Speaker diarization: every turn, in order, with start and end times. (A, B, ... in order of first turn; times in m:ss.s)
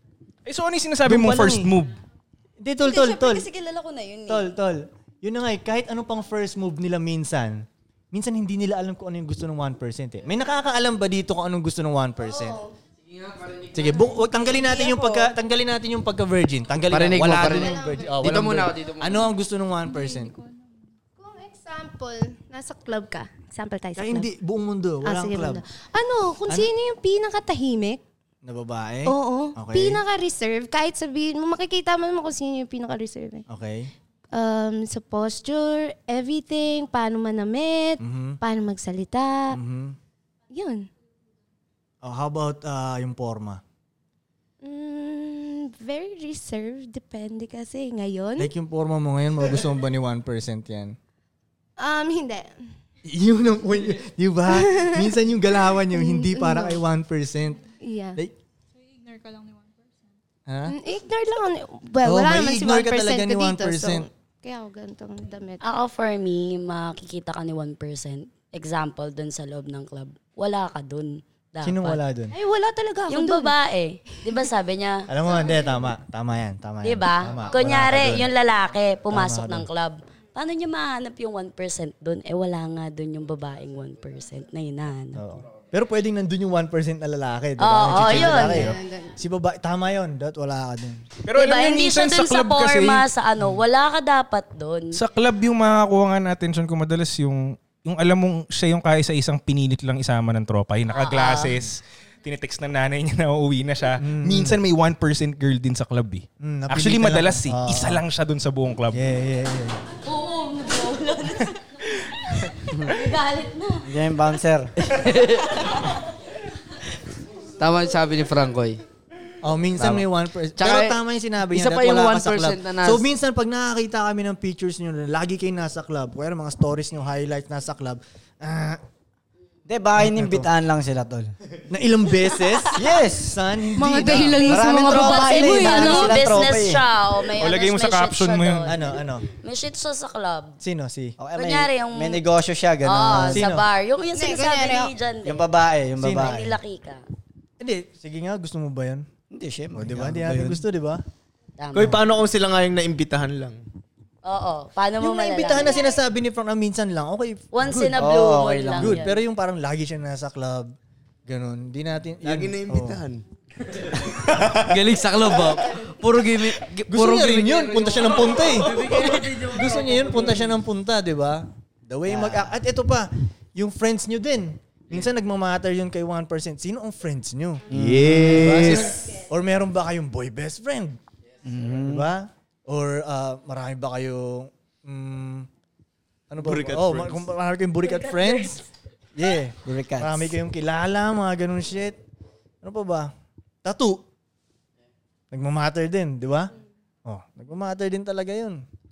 0:00.4-0:02.0 A
0:01.0-0:01.7 B
0:02.6-0:03.5 B
0:02.8-0:04.6 C
0:04.3-0:12.6 B
0:12.3-0:12.7 D
0:13.0-0:14.0 E
0:13.7-0:20.3 B
0:14.5-0:15.3 C
0:16.9-0:19.2 E
0:17.3-0:18.1 D
0:19.8-0:20.6 F
0:21.2-0:24.3 D
0:24.0-0:25.6 B
0:25.0-0:28.0 D
0:28.4-0:30.0 B
0:29.0-0:33.4 D
0:33.5-0:33.9 B
0:34.3-0:39.6 D
0:38.0-0:38.4 B
0:39.5-0:40.0 B
0:40.5-0:40.9 D
0:42.0-0:43.6 B
0:44.6-0:48.5 D
0:48.4-0:51.0 B
0:51.8-0:52.6 D
0:53.0-0:57.6 B
0:54.5-0:55.1 D
0:55.9-0:56.8 D
0:57.8-0:58.2 D
0:58.8-1:00.1 F
1:00.5-1:00.8 B
1:00.7-1:05.6 D
1:02.0-1:04.1 B
1:05.6-1:12.0 G
1:11.6-1:12.4 B
1:12.3-1:13.6 D
1:13.1-1:15.1 G
1:15.1-1:18.3 B
1:16.8-1:25.2 G
1:19.1-1:19.6 B
1:25.1-1:31.0 B
1:27.6-1:28.8 G
1:28.1-1:29.2 D
1:31.2-1:33.1 A
1:31.3-1:35.0 G
1:34.9-1:49.0 A
1:41.0-1:41.5 G
1:44.0-1:44.6 B
1:46.4-1:48.0 B
1:48.9-1:49.8 B
1:50.0-1:51.6 G
1:52.7-1:53.9 G
1:53.8-1:54.7 H
1:54.8-1:55.6 E
1:57.6-1:58.8 E
1:59.4-2:08.8 B
1:59.8-2:03.1 E
2:09.7-2:11.3 H
2:10.0-2:10.5 B
2:11.7-2:14.6 B
2:12.8-2:13.3 H
2:13.7-2:16.2 D
2:14.4-2:16.8 H
2:14.4-2:20.6 G
2:17.3-2:18.7 A
2:18.7-2:19.2 B
2:20.6-2:21.2 B
2:21.2-2:23.4 H
2:21.4-2:22.2 G
2:22.8-2:25.4 G
2:23.2-2:23.6 B
2:24.1-2:24.9 D
2:25.2-2:26.4 H
2:26.0-2:26.6 B
2:26.1-2:27.0 G
2:27.6-2:29.1 B
2:29.3-2:30.6 H
2:29.7-2:31.0 B
2:31.6-2:32.0 G
2:31.7-2:33.6 I
2:34.2-2:35.8 G
2:35.0-2:38.1 B
2:37.5-2:39.2 G
2:38.0-2:39.0 H
2:38.8-2:40.7 B
2:41.3-2:43.0 B
2:42.2-2:43.2 I
2:44.2-2:44.8 I
2:44.7-2:50.4 E
2:46.9-3:01.0 B
2:52.0-2:52.5 H
2:57.7-2:58.8 H
2:57.7-2:59.0 I
3:01.4-3:02.0 H
3:01.7-3:05.5 B
3:06.3-3:08.6 B
3:06.4-3:07.2 I
3:09.1-3:12.0 B
3:09.6-3:10.3 H
3:12.6-3:13.1 B
3:13.6-3:14.0 B
3:15.3-3:16.5 B
3:17.0-3:18.6 B